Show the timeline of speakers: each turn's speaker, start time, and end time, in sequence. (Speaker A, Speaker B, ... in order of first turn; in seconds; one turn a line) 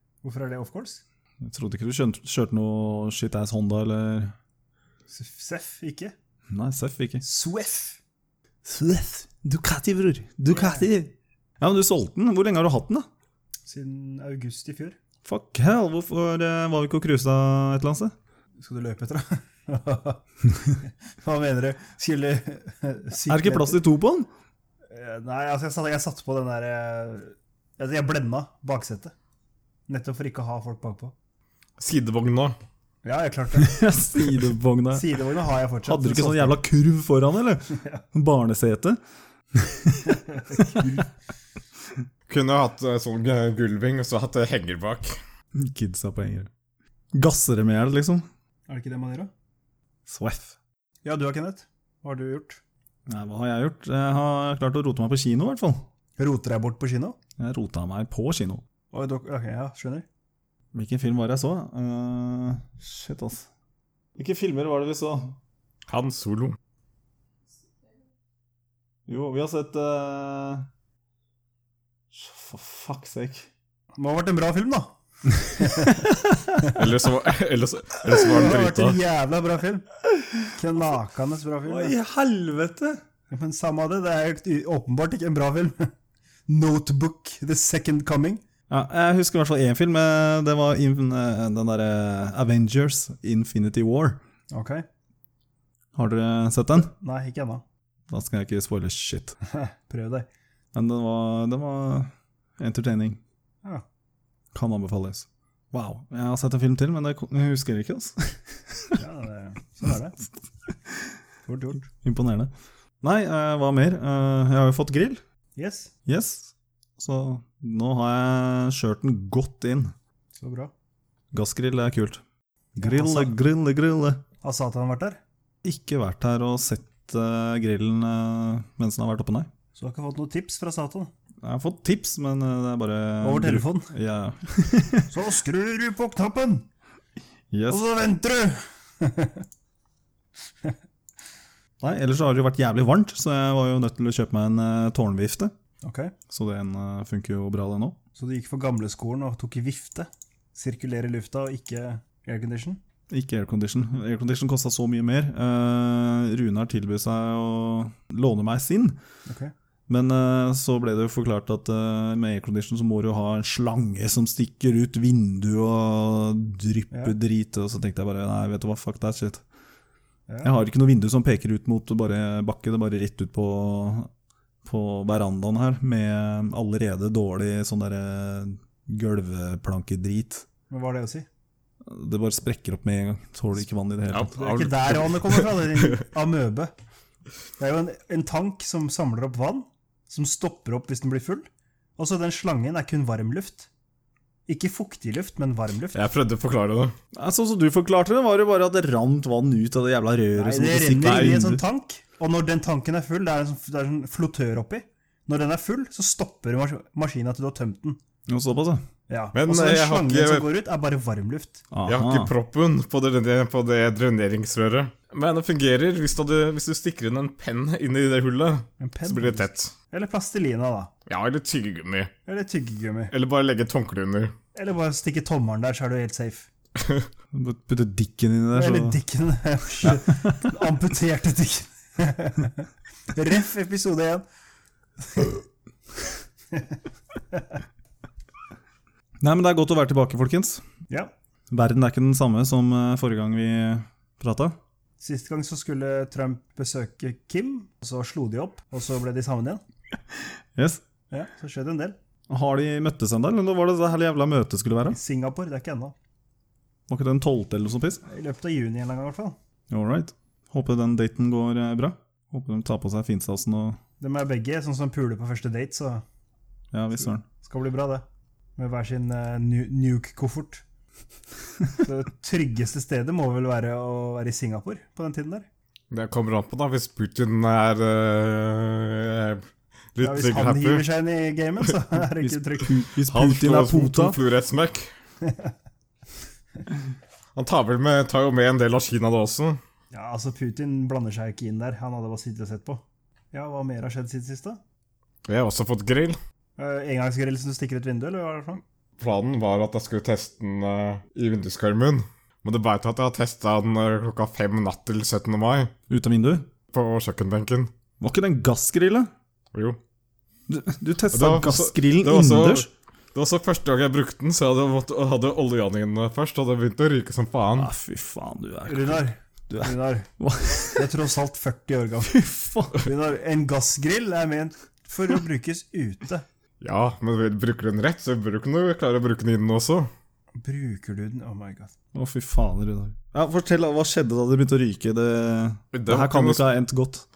Speaker A: 0.2-1.0
Speaker B: 1.4-4.3
Speaker A: 5.1-6.2
Speaker B: 6.5-7.2
Speaker A: 7.2-8.0
Speaker B: 8.6-13.1
Speaker A: 10.5-10.9
Speaker A: 13.7-15.0
Speaker B: 15.2-18.1
Speaker A: 18.6-20.2
Speaker A: 20.8-23.8
Speaker B: 23.3-24.3
Speaker A: 24.9-29.1
Speaker A: 29.9-31.1
Speaker C: 31.8-32.6
Speaker A: 33.0-33.8
Speaker B: 33.5-35.2
Speaker A: 34.9-36.6
Speaker B: 35.9-39.0
Speaker A: 37.7-38.0
Speaker B: 39.5-40.9
Speaker A: 40.1-41.1
Speaker C: 42.3-45.2
Speaker B: 45.5-46.5
Speaker B: 47.1-48.2
Speaker A: 48.7-49.3
Speaker B: 50.1-50.5
Speaker A: 51.0-52.6
Speaker B: 53.1-55.9
Speaker A: 56.2-57.2
Speaker B: 57.4-58.6
Speaker A: 58.9-60.1
Speaker B: 60.7-63.5
Speaker B: 64.2-65.4
Speaker C: 65.9-66.6
Speaker B: 69.1-70.7
Speaker B: 72.1-73.5
Speaker A: 74.0-76.1
Speaker C: 76.7-79.0
Speaker A: 78.1-79.9
Speaker A: 80.5-81.9
Speaker B: 81.7-83.0
Speaker A: 83.3-85.9
Speaker A: 86.5-88.4
Speaker B: 88.7-94.2
Speaker A: 94.5-94.8
Speaker B: 96.0-96.9
Speaker A: 97.0-97.6
Speaker B: 98.1-99.4
Speaker A: 99.5-100.3
Speaker B: 100.7-103.2
Speaker B: 104.5-109.0
Speaker A: 109.0-110.2
Speaker A: 111.5-111.9
Speaker B: 111.9-115.2
Speaker A: 115.6-115.9
Speaker B: 116.1-119.9
Speaker A: 120.4-120.7
Speaker B: 121.3-122.2
Speaker B: 122.8-124.2
Speaker A: 122.8-123.3
Speaker A: 124.4-125.2
Speaker B: 125.6-129.5
Speaker A: 129.8-131.1
Speaker B: 131.4-135.1
Speaker A: 133.2-133.9
Speaker A: 135.1-136.7
Speaker B: 137.5-137.8
Speaker A: 137.7-139.4
Speaker B: 141.8-145.5
Speaker A: 145.8-146.1
Speaker B: 146.3-148.0
Speaker A: 148.2-152.8
Speaker B: 153.1-159.0
Speaker A: 159.3-159.5
Speaker B: 159.9-169.4
Speaker B: 170.4-174.1
Speaker B: 174.7-180.5
Speaker A: 180.7-181.3
Speaker B: 181.8-184.3
Speaker C: 184.1-185.9
Speaker A: 184.3-186.7
Speaker A: 187.6-193.7
Speaker A: 194.5-196.0
Speaker C: 195.9-196.9
Speaker B: 197.1-201.6
Speaker A: 200.3-208.0
Speaker C: 201.0-201.4
Speaker B: 208.3-208.8
Speaker A: 209.1-211.6
Speaker C: 209.3-210.5
Speaker B: 211.7-212.3
Speaker C: 211.9-219.7
Speaker A: 218.8-220.9
Speaker C: 221.1-222.1
Speaker A: 222.3-223.1
Speaker C: 223.1-224.3
Speaker A: 224.6-226.5
Speaker C: 226.8-227.1
Speaker B: 227.3-229.0
Speaker A: 228.5-234.2
Speaker B: 239.2-240.6
Speaker B: 241.5-244.6
Speaker A: 245.0-249.6
Speaker B: 250.2-250.8
Speaker A: 251.1-252.0
Speaker B: 252.3-255.0
Speaker A: 254.9-255.9
Speaker B: 256.9-258.0
Speaker A: 258.1-259.4
Speaker B: 259.7-263.8
Speaker A: 264.0-266.0
Speaker B: 266.7-267.2
Speaker A: 267.3-268.1
Speaker A: 268.6-270.6
Speaker A: 271.8-275.5
Speaker C: 275.9-280.9
Speaker A: 280.0-282.8
Speaker B: 282.2-284.2
Speaker C: 283.1-284.9
Speaker A: 285.2-285.5
Speaker C: 287.4-289.6
Speaker A: 289.9-294.6
Speaker C: 295.3-296.2
Speaker A: 296.6-298.6
Speaker C: 299.0-305.7
Speaker B: 305.9-306.5
Speaker C: 306.7-307.7
Speaker B: 308.0-309.1
Speaker B: 310.5-312.7
Speaker C: 311.1-317.7
Speaker B: 317.6-320.9
Speaker A: 318.7-320.1
Speaker A: 320.7-322.2
Speaker B: 322.1-322.8
Speaker A: 322.8-326.2
Speaker C: 326.6-329.9
Speaker A: 330.4-331.7
Speaker B: 331.9-337.1
Speaker C: 335.7-336.5